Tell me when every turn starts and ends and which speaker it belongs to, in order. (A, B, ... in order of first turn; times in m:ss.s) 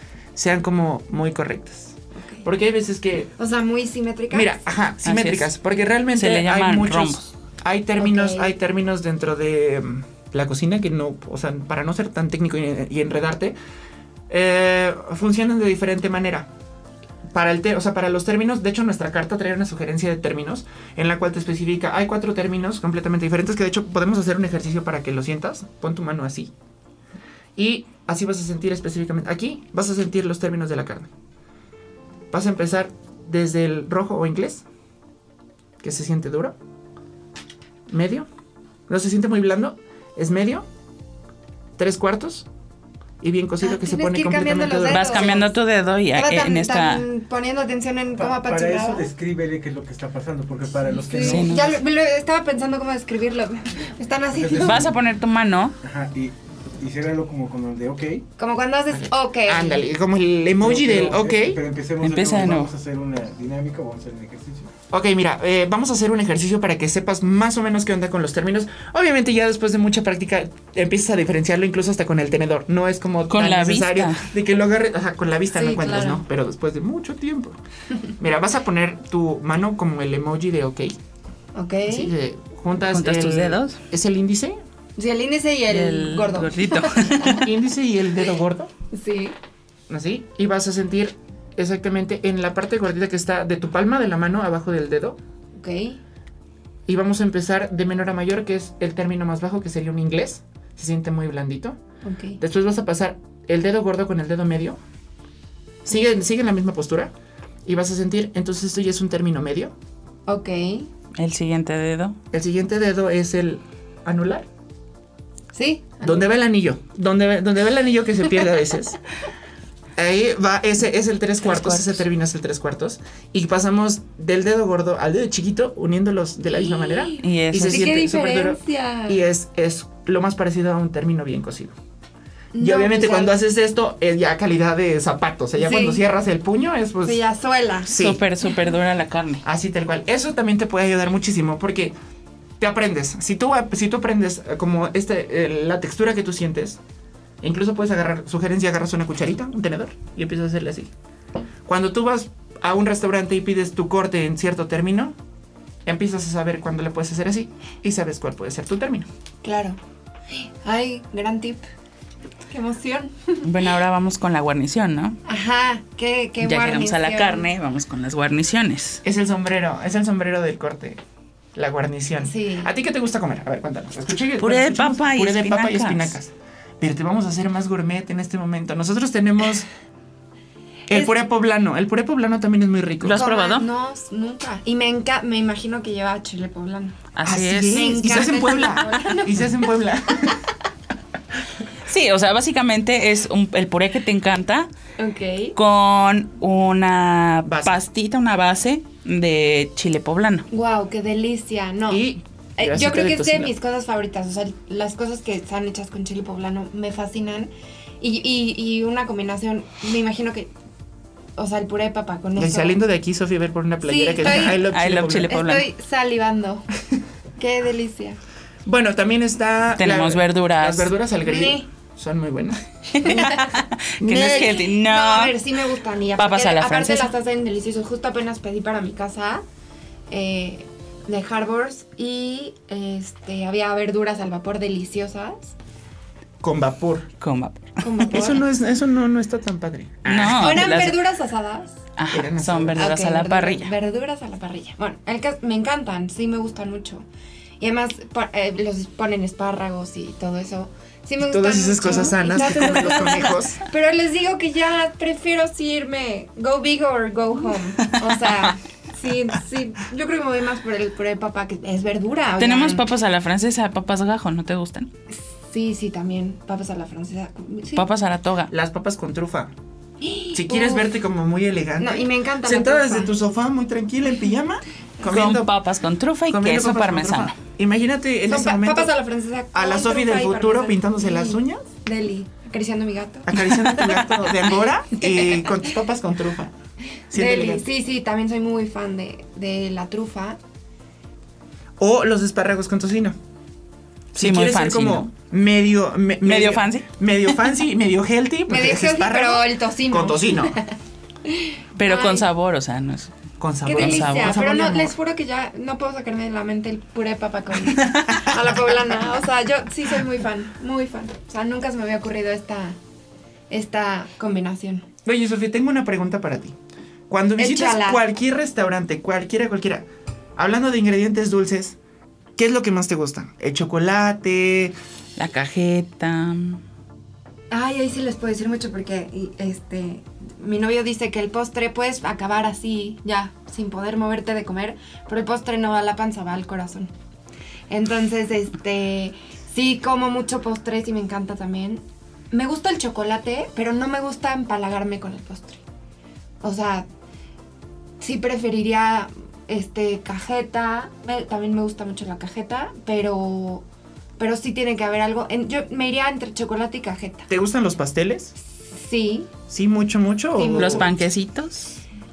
0:00.4-0:03.3 A
0:02.2-0:02.5 B
0:03.4-0:04.5 B
0:04.3-0:13.6 A
0:05.0-0:05.5 C
0:06.2-0:07.3 C
0:08.0-0:08.5 B
0:14.3-0:16.5 A
0:17.3-0:26.5 A
0:27.6-0:31.1 A
0:32.3-0:34.6 A
0:35.8-0:36.6 A
0:37.9-0:38.3 A
0:38.9-0:40.7 A
0:41.8-0:42.5 A
0:43.2-0:45.5 A
0:43.6-0:45.5 B
0:44.9-0:47.0 C
0:46.1-0:49.1 B
0:48.2-0:51.7 D
0:50.9-0:54.9 B
0:51.2-0:51.8 C
0:54.3-0:55.0 D
0:54.6-0:55.8 C
0:55.8-0:58.2 D
0:58.4-0:59.8 B
0:58.9-1:01.6 A
1:00.6-1:04.7 D
1:02.0-1:02.7 C
1:04.9-1:17.6 A
1:13.3-1:14.3 C
1:15.5-1:16.2 B
1:18.2-1:21.0 A
1:21.6-1:22.1 B
1:21.9-1:24.6 A
1:22.9-1:23.8 C
1:25.0-1:27.4 B
1:25.7-1:27.5 C
1:27.4-1:28.7 A
1:28.9-1:29.4 B
1:29.9-1:35.2 A
1:35.6-1:36.0 B
1:36.9-1:41.8 A
1:42.0-1:42.4 B
1:42.4-1:44.8 A
1:45.8-1:47.1 A
1:47.6-1:49.7 A
1:50.3-1:50.9 B
1:51.2-1:52.2 C
1:52.3-1:54.5 A
1:55.5-1:56.3 B
1:56.0-1:59.0 A
2:00.0-2:11.8 A
2:01.5-2:02.0 C
2:06.5-2:09.2 B
2:07.2-2:08.0 C
2:12.5-2:13.4 B
2:12.6-2:17.2 A
2:15.6-2:16.0 B
2:17.0-2:17.9 B
2:17.8-2:18.2 A
2:17.9-2:19.4 C
2:19.4-2:22.0 A
2:22.6-2:26.8 A
2:27.4-2:30.9 A
2:31.7-2:35.2 A
2:35.8-2:39.1 A
2:39.4-2:39.8 B
2:40.3-2:41.7 B
2:42.5-2:43.5 B
2:43.4-2:45.2 C
2:45.2-2:47.5 B
2:46.4-2:49.0 C
2:49.0-2:51.0 A
2:51.6-2:59.7 A
2:52.2-2:52.7 B
2:54.4-2:56.2 C
3:00.9-3:03.2 A
3:03.0-3:03.7 C
3:03.2-3:07.0 B
3:07.2-3:08.0 C
3:07.2-3:10.4 A
3:07.7-3:09.5 B
3:11.8-3:14.7 C
3:15.0-3:15.6 B
3:15.6-3:20.5 C
3:17.5-3:17.8 A
3:20.5-3:22.0 B
3:21.9-3:23.5 A
3:22.6-3:30.5 B
3:31.4-3:32.8 B
3:32.4-3:35.4 A
3:33.8-3:34.6 B
3:34.3-3:35.7 C
3:35.3-3:36.7 B
3:37.4-3:38.2 B
3:38.6-3:43.2 A
3:39.8-3:40.9 C
3:41.2-3:41.7 B
3:42.9-3:45.4 C
3:43.0-3:43.5 B
3:44.0-3:44.6 A
3:44.1-3:49.4 B
3:46.2-3:47.1 C
3:50.1-3:55.6 B
3:56.4-3:57.1 A
3:57.2-3:57.9 C
3:57.8-3:58.4 B
3:58.1-4:00.9 A
4:00.1-4:01.0 C
4:00.3-4:01.8 B
4:02.0-4:03.7 C
4:02.1-4:03.0 A
4:02.8-4:07.1 B
4:07.6-4:22.9 B
4:11.2-4:13.6 A
4:17.9-4:18.4 C
4:22.4-4:24.9 C
4:25.1-4:27.9 B
4:27.8-4:28.5 C
4:28.5-4:29.5 A
4:30.0-4:31.0 B
4:30.3-4:35.5 A
4:31.8-4:33.1 B
4:35.0-4:37.4 C
4:36.3-4:38.9 A
4:38.3-4:43.3 B
4:39.5-4:41.7 A
4:43.3-4:46.5 A
4:43.6-4:44.3 C
4:45.0-4:45.6 B
4:47.1-4:47.6 A
4:47.1-4:50.4 B
4:51.8-4:53.2 A
4:54.1-4:55.1 C
4:54.2-5:00.6 A
4:56.2-4:56.9 C
4:58.5-5:02.3 B
5:01.8-5:03.1 C
5:03.4-5:04.9 A
5:03.6-5:12.8 B
5:03.8-5:04.4 C
5:13.5-5:14.9 B
5:15.0-5:16.6 A
5:17.1-5:21.8 A
5:17.4-5:18.0 B
5:22.4-5:24.8 A
5:25.2-5:26.6 C
5:27.5-5:36.9 B
5:37.7-5:45.6 B
5:46.4-5:46.9 B
5:48.0-5:53.6 B
5:54.2-5:57.3 B
5:57.3-5:58.3 A
5:58.6-5:59.3 B
5:59.5-6:00.9 A
6:00.3-6:00.9 B
6:00.6-6:01.8 C